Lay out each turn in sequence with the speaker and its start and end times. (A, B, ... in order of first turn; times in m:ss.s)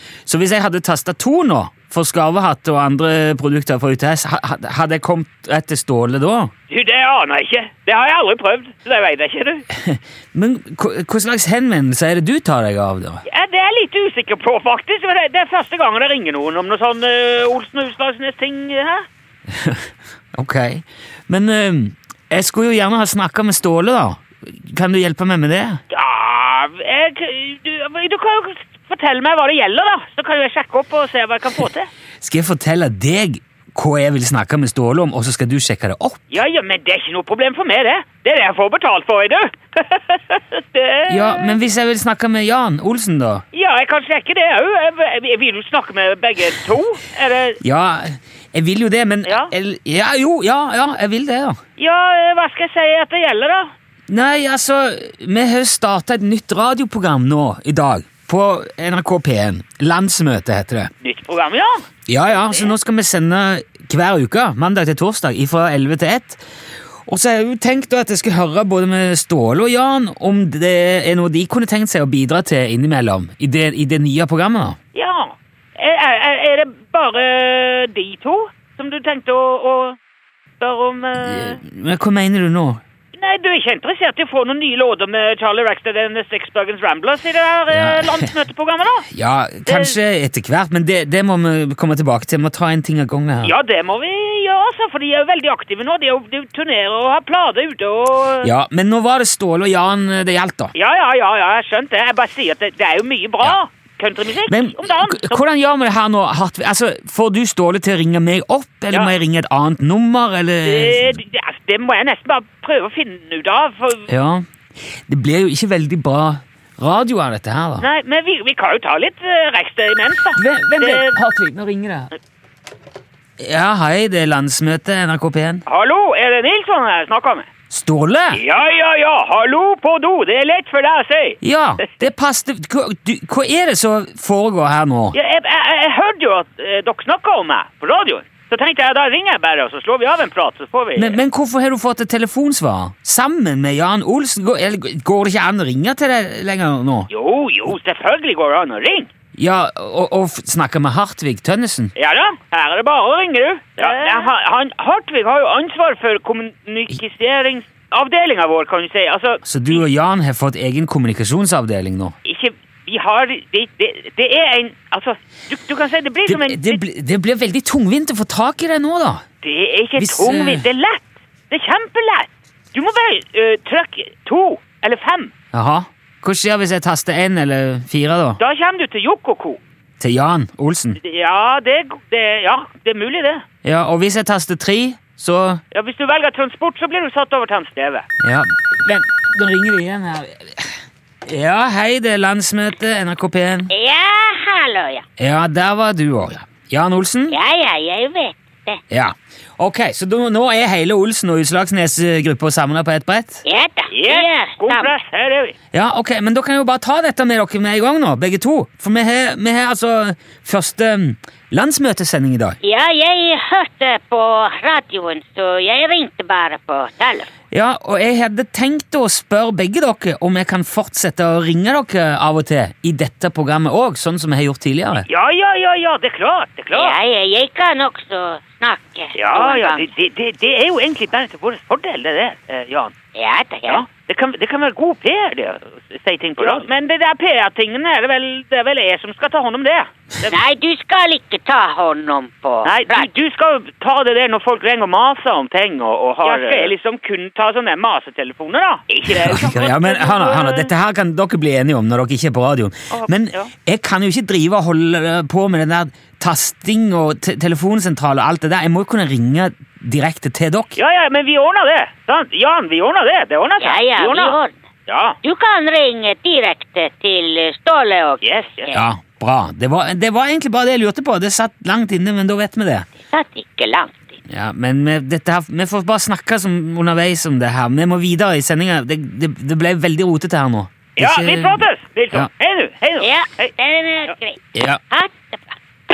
0:00.2-0:06.5 A
0:06.7-0:09.6 B
0:09.7-0:13.2 A
0:13.2-0:19.0 B
0:19.5-0:25.8 A
0:25.9-0:31.9 B
0:32.2-0:36.2 A
0:36.3-0:41.5 B
0:41.1-0:43.4 A
0:43.5-0:47.6 B
0:47.6-0:51.6 A
0:49.2-0:49.5 B
0:51.8-0:53.7 B
0:54.1-1:00.9 A
1:01.0-1:02.7 B
1:02.1-1:06.4 A
1:07.1-1:14.8 A
1:14.9-1:20.0 B
1:20.6-1:21.6 B
1:21.2-1:22.8 A
1:23.1-1:29.1 B
1:27.7-1:28.3 A
1:29.1-1:33.5 A
1:29.6-1:30.0 B
1:33.4-1:38.5 B
1:38.4-1:40.7 A
1:40.7-1:45.4 B
1:44.5-1:51.2 A
1:50.6-1:54.1 B
1:54.1-1:57.9 A
1:57.8-2:01.2 B
2:00.3-2:02.1 A
2:03.4-2:05.6 A
2:05.7-2:07.5 B
2:07.7-2:08.4 A
2:08.3-2:12.0 B
2:11.4-2:15.1 A
2:15.1-2:21.2 B
2:21.0-2:27.1 A
2:27.1-2:29.1 B
2:29.4-2:31.9 A
2:32.0-2:39.8 B
2:33.8-2:34.3 C
2:39.4-2:42.1 A
2:42.2-2:46.8 B
2:46.2-2:49.2 A
2:49.4-2:55.3 B
2:50.0-2:50.6 A
2:55.5-2:58.4 A
2:58.4-2:59.6 B
3:00.0-3:01.0 A
3:01.0-3:03.4 B
3:03.6-3:05.6 A
3:05.7-3:08.0 B
3:08.2-3:13.7 A
3:13.7-3:15.0 C
3:15.2-3:17.4 A
3:17.3-3:18.8 C
3:18.9-3:23.4 A
3:23.4-3:24.9 C
3:23.9-3:25.5 B
3:25.7-3:32.6 A
3:32.6-3:37.3 C
3:37.5-3:45.0 A
3:45.0-3:47.0 B
3:46.7-3:49.9 C
3:49.1-3:53.0 B
3:53.1-3:53.8 C
3:53.7-4:00.4 B
4:00.3-4:03.1 C
4:02.6-4:10.7 B
4:06.2-4:06.7 C
4:09.1-4:20.8 A
4:12.9-4:13.5 B
4:20.8-4:25.2 B
4:23.6-4:24.5 C
4:25.2-4:28.8 C
4:28.2-4:28.7 B
4:28.7-4:32.9 A
4:33.1-4:34.2 C
4:34.3-4:42.3 A
4:41.0-4:43.5 B
4:43.0-4:45.6 C
4:44.5-4:44.8 A